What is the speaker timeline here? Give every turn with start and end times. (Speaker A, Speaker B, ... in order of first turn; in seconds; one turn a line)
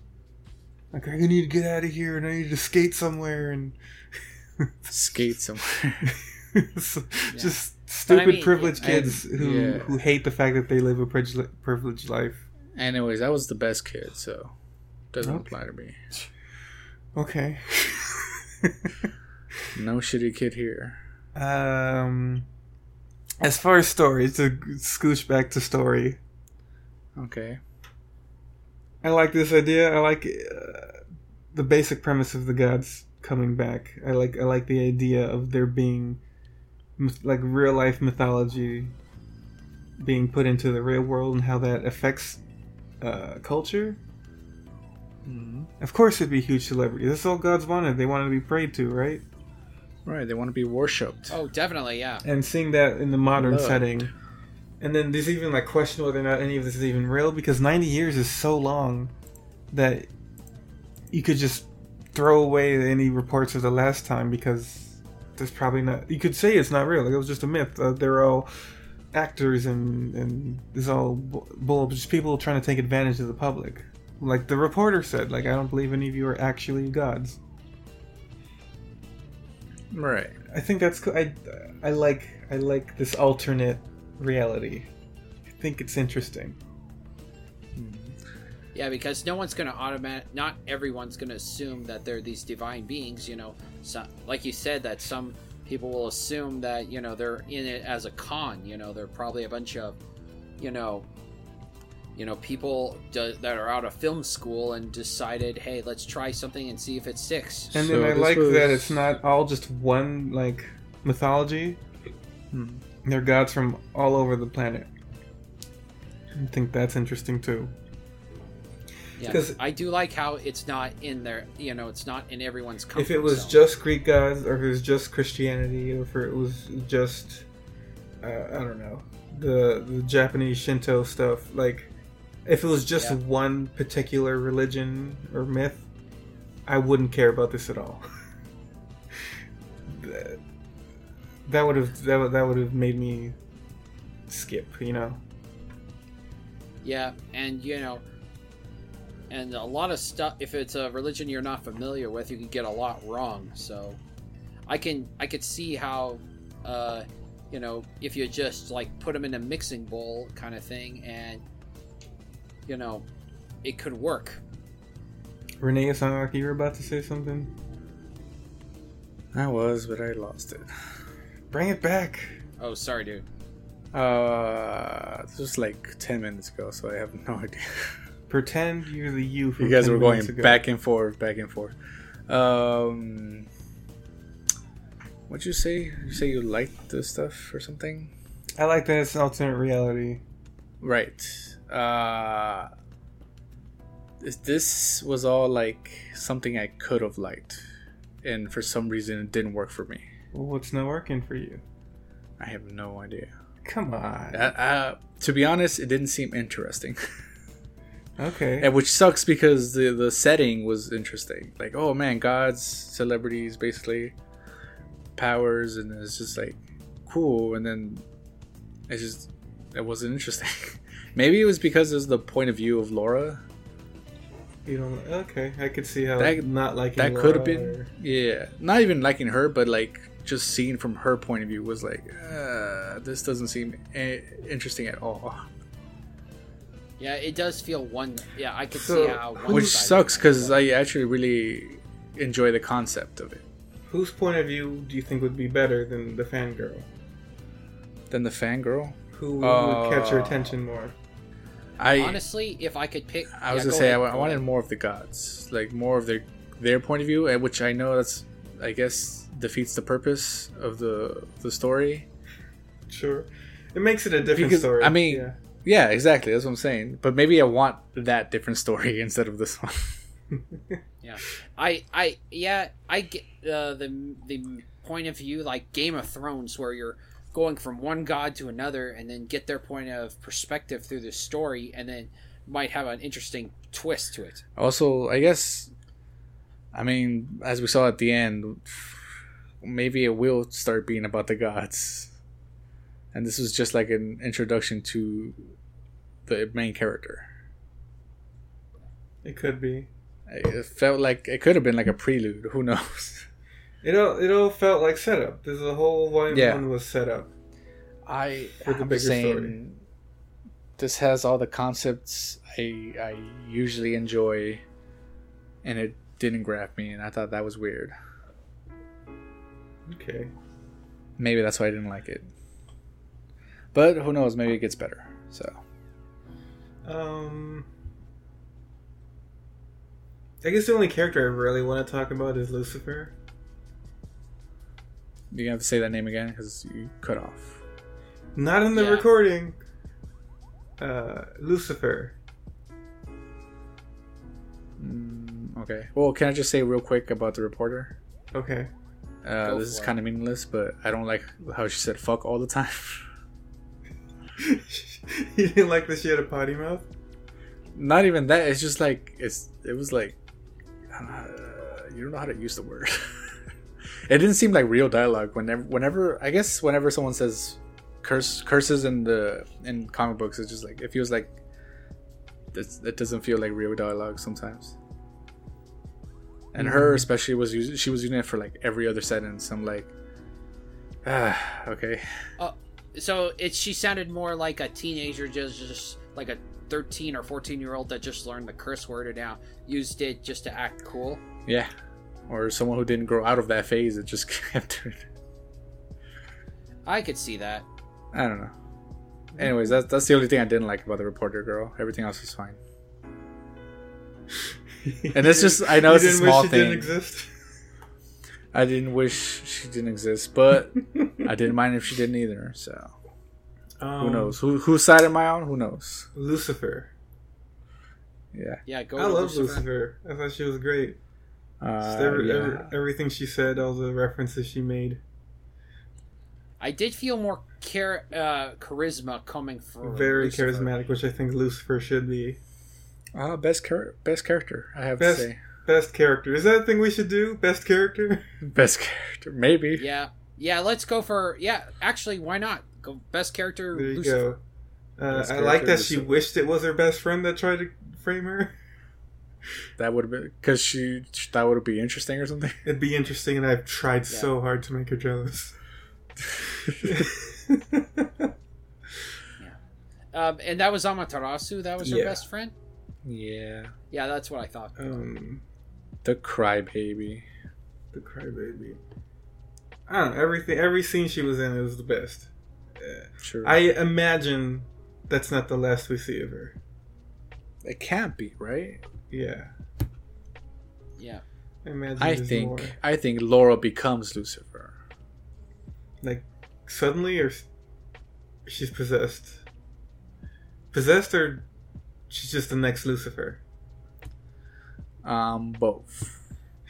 Speaker A: 0.9-3.8
Speaker A: 4.6-5.2
Speaker B: 4.9-6.2
Speaker A: 6.0-12.4
Speaker C: 7.3-8.8
Speaker B: 8.8-10.0
Speaker B: 12.7-14.5
Speaker B: 15.1-16.0
Speaker A: 15.2-15.5
Speaker A: 17.1-18.9
Speaker B: 19.7-21.0
Speaker A: 21.3-22.4
Speaker A: 23.4-26.2
Speaker B: 27.1-27.6
Speaker A: 29.0-31.0
Speaker A: 31.5-36.2
Speaker A: 37.0-38.9
Speaker A: 40.0-42.4
Speaker A: 43.0-44.0
Speaker B: 45.2-45.7
Speaker A: 45.8-49.2
Speaker B: 50.0-51.4
Speaker C: 51.3-52.2
Speaker A: 52.2-54.1
Speaker B: 53.4-54.1
Speaker A: 54.8-59.1
Speaker A: 59.7-60.1
Speaker A: 61.1-68.5
Speaker A: 69.1-77.4
Speaker B: 79.9-80.3
Speaker A: 80.5-84.9
Speaker A: 85.6-86.6
Speaker B: 87.8-88.2
Speaker C: 88.7-100.0
Speaker C: 100.6-101.1
Speaker C: 102.1-107.7
Speaker B: 107.7-109.1
Speaker A: 107.7-111.8
Speaker B: 112.5-112.8
Speaker A: 113.0-114.9
Speaker A: 116.3-117.7
Speaker C: 119.2-123.6
Speaker A: 119.2-119.6
Speaker A: 123.0-127.4
Speaker A: 128.2-131.9
Speaker A: 132.4-135.8
Speaker A: 136.7-138.0
Speaker A: 139.9-140.4
Speaker A: 141.4-143.3
Speaker A: 144.3-145.2
Speaker C: 146.8-148.0
Speaker C: 149.3-154.0
Speaker C: 154.7-161.4
Speaker C: 162.7-163.1
Speaker C: 163.6-164.4
Speaker A: 165.6-167.5
Speaker B: 169.3-170.7
Speaker A: 171.5-172.4
Speaker C: 172.6-173.2
Speaker B: 173.9-178.0
Speaker A: 178.3-180.6
Speaker B: 179.6-181.7
Speaker B: 182.3-183.5
Speaker B: 185.3-188.1
Speaker A: 188.6-190.2
Speaker B: 190.8-192.7
Speaker B: 194.2-197.6
Speaker B: 198.2-200.1
Speaker A: 200.3-201.6
Speaker B: 202.4-203.3
Speaker A: 203.6-204.5
Speaker B: 204.3-207.0
Speaker A: 208.2-208.7
Speaker B: 208.6-214.1
Speaker B: 215.2-218.0
Speaker B: 218.9-223.4
Speaker A: 224.7-227.9
Speaker B: 226.2-235.4
Speaker C: 237.0-240.6
Speaker A: 238.7-239.8
Speaker B: 239.5-243.4
Speaker A: 243.9-246.9
Speaker B: 248.1-250.6
Speaker A: 249.1-250.9
Speaker B: 251.8-252.2
Speaker C: 251.9-254.4
Speaker B: 253.3-262.1
Speaker A: 262.9-265.4
Speaker B: 264.2-270.0
Speaker C: 271.0-284.4
Speaker B: 284.6-285.7
Speaker B: 286.7-289.0
Speaker B: 289.6-292.1
Speaker B: 293.1-295.5
Speaker B: 296.2-297.3
Speaker A: 299.2-299.9
Speaker B: 300.3-303.3
Speaker A: 303.8-307.3
Speaker B: 306.3-306.6
Speaker B: 308.1-309.8
Speaker A: 308.6-309.6
Speaker B: 310.8-314.6
Speaker B: 315.6-317.9
Speaker A: 319.9-320.3
Speaker B: 321.2-322.3
Speaker B: 323.7-325.6
Speaker A: 326.8-327.7
Speaker A: 330.4-333.1
Speaker B: 335.3-337.6
Speaker A: 338.3-339.6
Speaker C: 338.7-339.1
Speaker A: 340.8-342.1
Speaker B: 344.8-347.9
Speaker A: 348.3-348.7
Speaker B: 349.2-353.0
Speaker C: 349.4-349.9
Speaker A: 354.4-356.9
Speaker B: 357.7-360.2
Speaker B: 360.9-363.0
Speaker B: 364.1-371.3
Speaker B: 372.5-374.7
Speaker B: 376.5-379.9
Speaker A: 376.6-377.1
Speaker B: 381.0-382.0
Speaker C: 382.4-391.2
Speaker B: 391.4-391.7
Speaker B: 392.3-395.0
Speaker C: 396.9-397.6
Speaker B: 398.1-398.5
Speaker A: 399.3-399.6
Speaker B: 399.4-402.6
Speaker A: 404.8-407.3
Speaker B: 405.1-406.9
Speaker B: 408.5-412.9
Speaker A: 413.8-414.4
Speaker B: 414.0-416.1
Speaker A: 416.1-416.9
Speaker B: 418.3-418.6
Speaker C: 418.6-419.6
Speaker A: 419.0-421.0
Speaker B: 421.6-422.7
Speaker A: 421.8-425.0
Speaker C: 426.6-430.7
Speaker A: 429.8-432.4
Speaker B: 433.1-435.4
Speaker A: 435.0-438.3
Speaker B: 438.4-439.8
Speaker C: 439.8-444.2
Speaker A: 443.7-444.4
Speaker A: 445.0-448.5
Speaker B: 445.1-446.1
Speaker B: 449.8-452.6
Speaker A: 452.6-455.5
Speaker A: 456.4-458.3
Speaker C: 460.1-462.5
Speaker B: 461.8-462.1
Speaker B: 463.0-463.7
Speaker C: 463.9-465.0
Speaker A: 464.8-465.4
Speaker B: 466.0-467.2
Speaker A: 467.9-468.8
Speaker A: 469.9-472.3
Speaker A: 472.8-476.6
Speaker B: 473.2-473.6
Speaker B: 477.6-478.8
Speaker A: 479.1-479.5
Speaker C: 481.0-481.2
Speaker A: 481.6-482.8
Speaker B: 482.0-484.7
Speaker A: 486.0-487.4
Speaker A: 488.4-489.4
Speaker A: 490.7-491.4
Speaker A: 492.1-493.4
Speaker B: 495.0-496.2